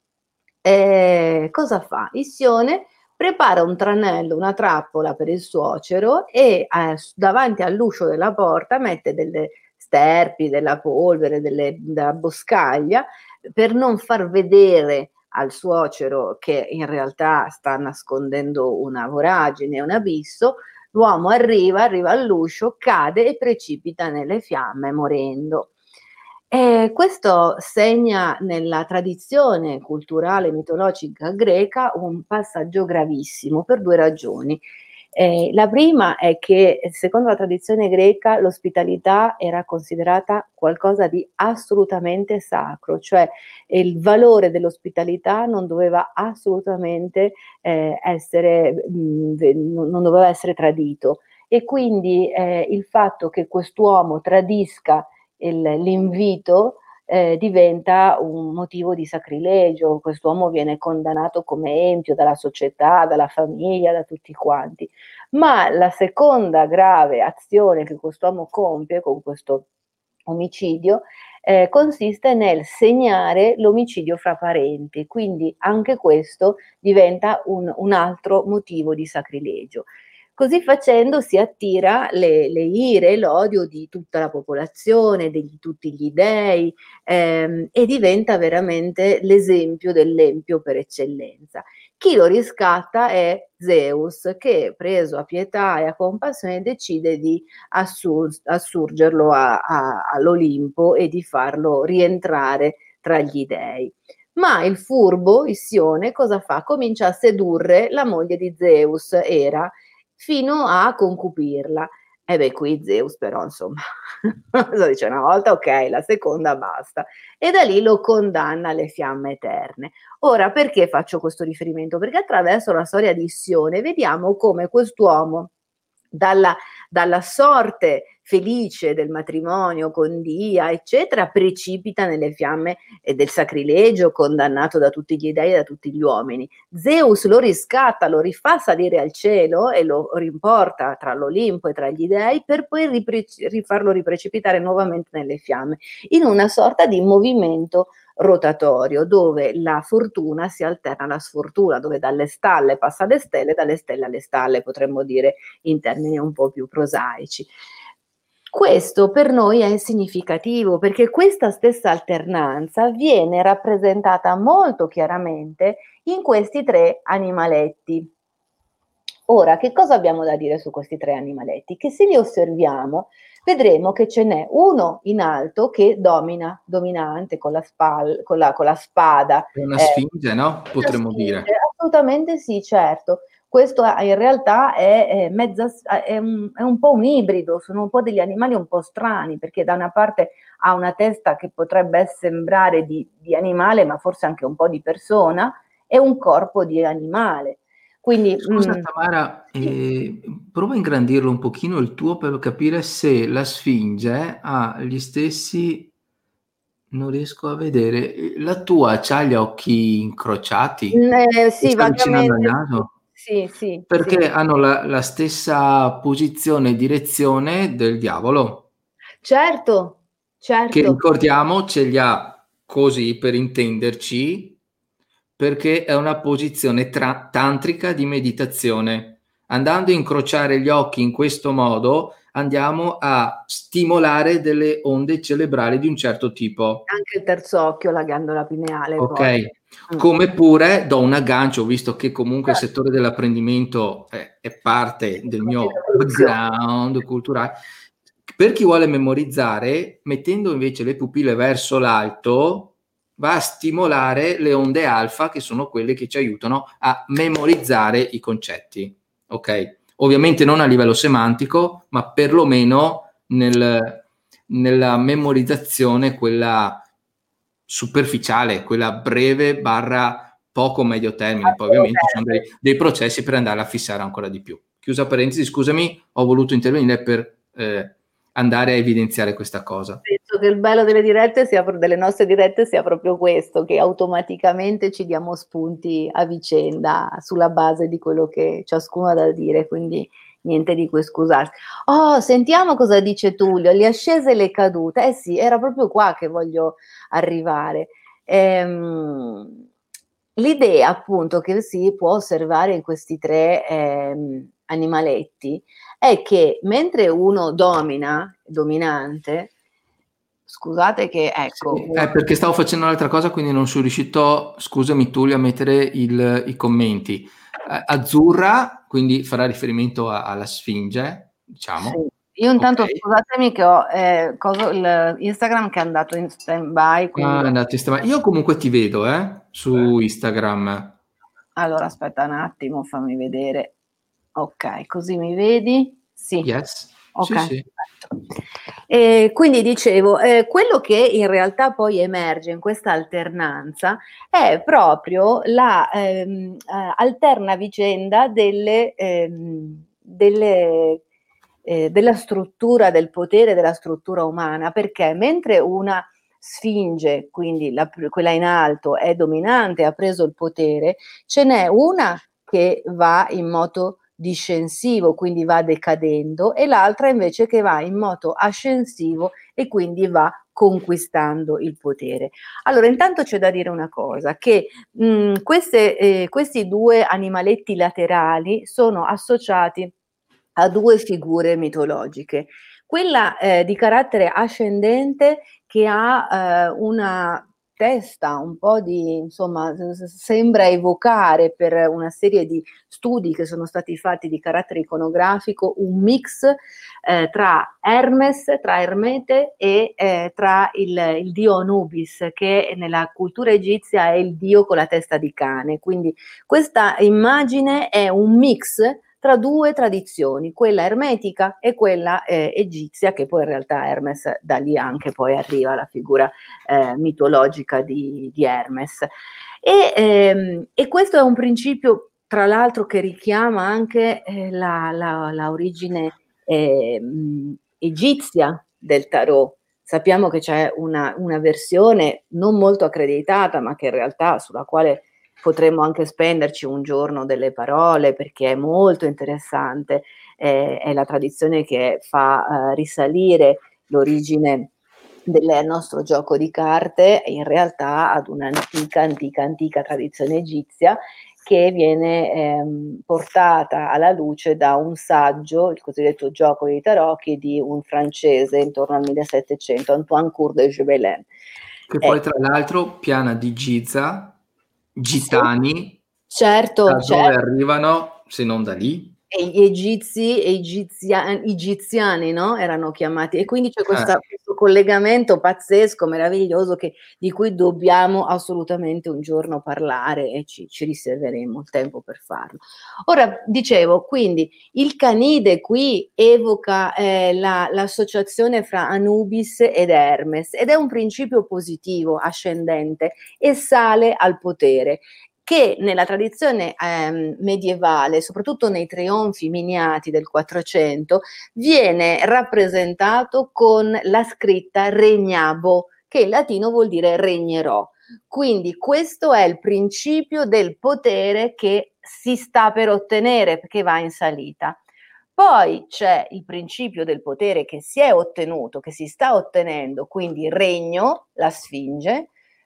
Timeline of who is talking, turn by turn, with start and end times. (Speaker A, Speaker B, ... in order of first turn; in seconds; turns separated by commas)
Speaker A: 0.6-25.7, Speaker A: 26.5-34.6, Speaker A: 35.1-69.7, Speaker A: 70.3-125.5, Speaker A: 126.1-157.5, Speaker A: 158.5-168.1, Speaker A: 169.3-180.0, Speaker B: 179.5-181.5, Speaker A: 180.7-198.8, Speaker B: 198.4-205.9, Speaker B: 206.9-211.0, Speaker A: 210.9-214.3, Speaker B: 211.6-212.9, Speaker B: 213.9-218.7, Speaker A: 219.2-221.0, Speaker B: 220.7-224.6, Speaker B: 225.4-236.8, Speaker A: 236.9-240.1, Speaker B: 239.0-247.6, Speaker A: 245.3-246.3, Speaker B: 248.3-266.8, Speaker B: 267.7-280.0, Speaker A: 271.4-272.4, Speaker A: 280.1-299.6, Speaker A: 300.4-309.5, Speaker A: 310.5-312.2, Speaker B: 311.5-322.0, Speaker A: 321.8-327.5, Speaker B: 322.6-323.0, Speaker B: 327.1-330.9, Speaker A: 331.6-333.7, Speaker A: 334.4-336.5, Speaker B: 336.4-337.7, Speaker A: 337.1-338.1, Speaker A: 338.9-351.0, Speaker A: 351.6-379.9, Speaker A: 380.6-419.1, Speaker A: 419.6-444.7, Speaker A: 445.3-461.3, Speaker B: 461.9-464.4, Speaker B: 464.9-466.0, Speaker A: 465.2-465.5, Speaker A: 466.3-467.3, Speaker B: 466.9-469.1, Speaker A: 469.3-514.8, Speaker A: 515.4-522.3